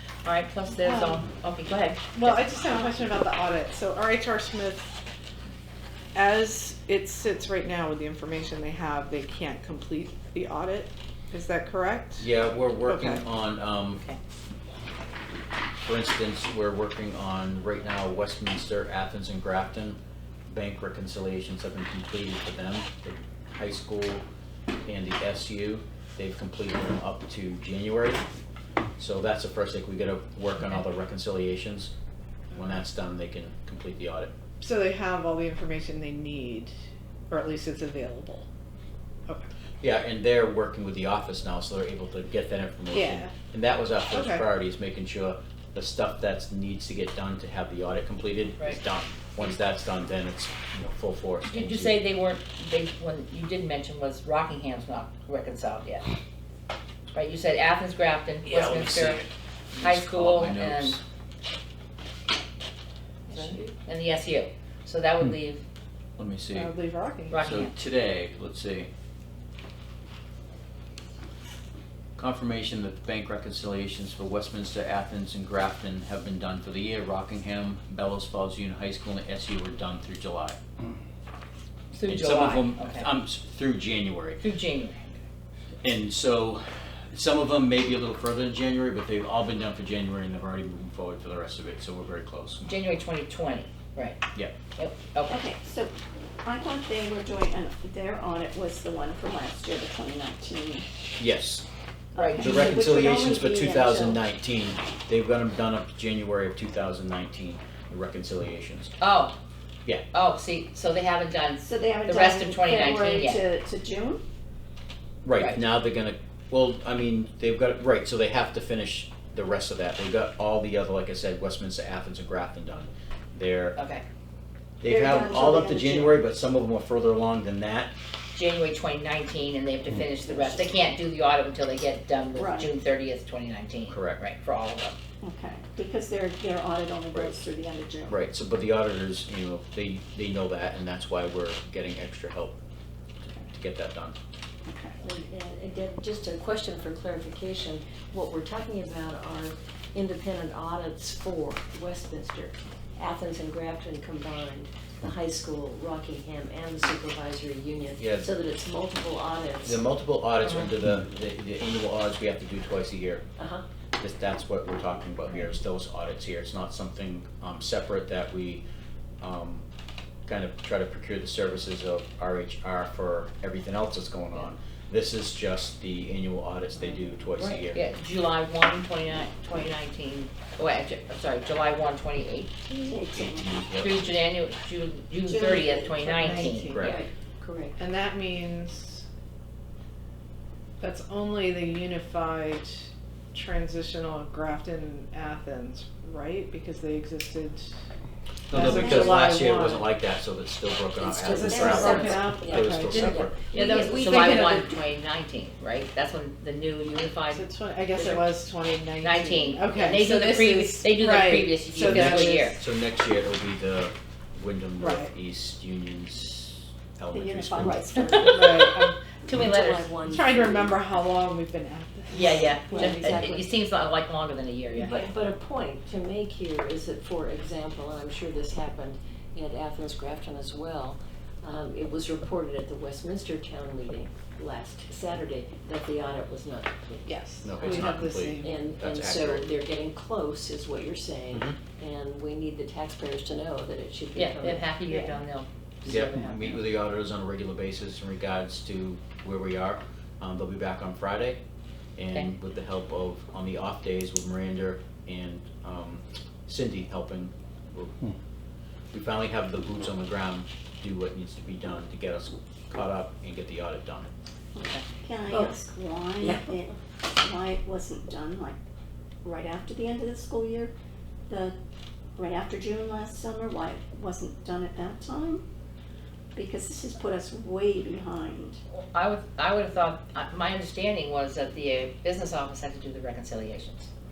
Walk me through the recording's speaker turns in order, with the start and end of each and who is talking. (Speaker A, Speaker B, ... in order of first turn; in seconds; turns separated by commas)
Speaker A: 0.2-2.4, Speaker B: 0.7-1.2, Speaker B: 2.1-5.0, Speaker B: 6.1-12.3, Speaker C: 12.2-14.0, Speaker B: 12.8-13.2, Speaker C: 15.8-24.2, Speaker C: 24.8-28.2, Speaker C: 29.0-31.9, Speaker C: 32.5-34.3, Speaker B: 34.6-36.7, Speaker B: 37.3-38.5, Speaker C: 39.8-52.0, Speaker B: 42.9-43.3, Speaker B: 44.1-44.5, Speaker A: 51.5-56.0, Speaker A: 57.1-59.2, Speaker C: 58.4-61.0, Speaker A: 59.8-61.0, Speaker A: 63.3-65.6, Speaker C: 66.2-66.7, Speaker B: 66.5-67.5, Speaker A: 67.3-67.7, Speaker C: 67.4-68.9, Speaker C: 72.2-80.6, Speaker A: 81.9-83.1, Speaker C: 82.0-84.4, Speaker A: 84.4-85.1, Speaker C: 85.8-92.8, Speaker A: 92.6-94.2, Speaker A: 94.8-95.4, Speaker D: 95.3-95.9, Speaker D: 96.4-100.8, Speaker C: 101.2-101.7, Speaker A: 102.1-102.7, Speaker D: 102.1-104.2, Speaker C: 102.4-108.9, Speaker A: 109.0-109.3, Speaker A: 110.1-113.4, Speaker D: 111.6-114.2, Speaker C: 115.2-123.8, Speaker A: 123.8-124.0, Speaker C: 124.8-127.9, Speaker D: 124.8-126.2, Speaker A: 128.3-134.9, Speaker D: 130.2-130.7, Speaker D: 132.3-132.7, Speaker C: 133.9-134.2, Speaker D: 135.2-138.2, Speaker C: 138.1-142.6, Speaker C: 143.5-144.2, Speaker D: 144.7-145.0, Speaker E: 145.0-159.8, Speaker C: 158.0-158.3, Speaker C: 159.6-163.2, Speaker A: 160.4-160.7, Speaker E: 163.4-163.6, Speaker C: 164.0-168.6, Speaker C: 169.2-169.6, Speaker C: 170.2-177.8, Speaker E: 177.3-177.7, Speaker A: 177.7-182.5, Speaker D: 182.7-183.5, Speaker C: 183.1-184.1, Speaker A: 183.8-186.8, Speaker D: 185.2-186.5, Speaker B: 185.9-187.0, Speaker C: 186.7-187.0, Speaker E: 186.8-187.8, Speaker B: 187.8-189.1, Speaker B: 190.8-197.7, Speaker C: 198.5-203.4, Speaker B: 198.5-199.9, Speaker D: 198.6-199.2, Speaker E: 201.0-204.6, Speaker B: 201.2-203.4, Speaker D: 201.5-202.0, Speaker A: 202.8-208.4, Speaker B: 207.3-212.6, Speaker A: 209.0-212.6, Speaker C: 211.8-217.9, Speaker B: 214.8-215.1, Speaker D: 217.1-218.8, Speaker A: 218.1-218.6, Speaker B: 218.2-219.1, Speaker A: 219.2-219.9, Speaker E: 219.3-220.8, Speaker B: 220.0-222.3, Speaker A: 222.1-225.0, Speaker E: 222.3-223.5, Speaker E: 224.7-237.9, Speaker B: 237.0-238.6, Speaker C: 237.4-239.5, Speaker E: 238.4-244.7, Speaker C: 241.3-241.6, Speaker A: 244.1-246.7, Speaker D: 244.9-245.2, Speaker C: 245.8-251.4, Speaker C: 252.0-258.0, Speaker C: 258.9-264.1, Speaker D: 264.6-268.6, Speaker A: 264.6-264.8, Speaker E: 265.3-265.6, Speaker D: 269.2-270.7, Speaker D: 271.3-271.5, Speaker D: 272.1-275.4, Speaker D: 276.3-278.6, Speaker A: 278.9-283.9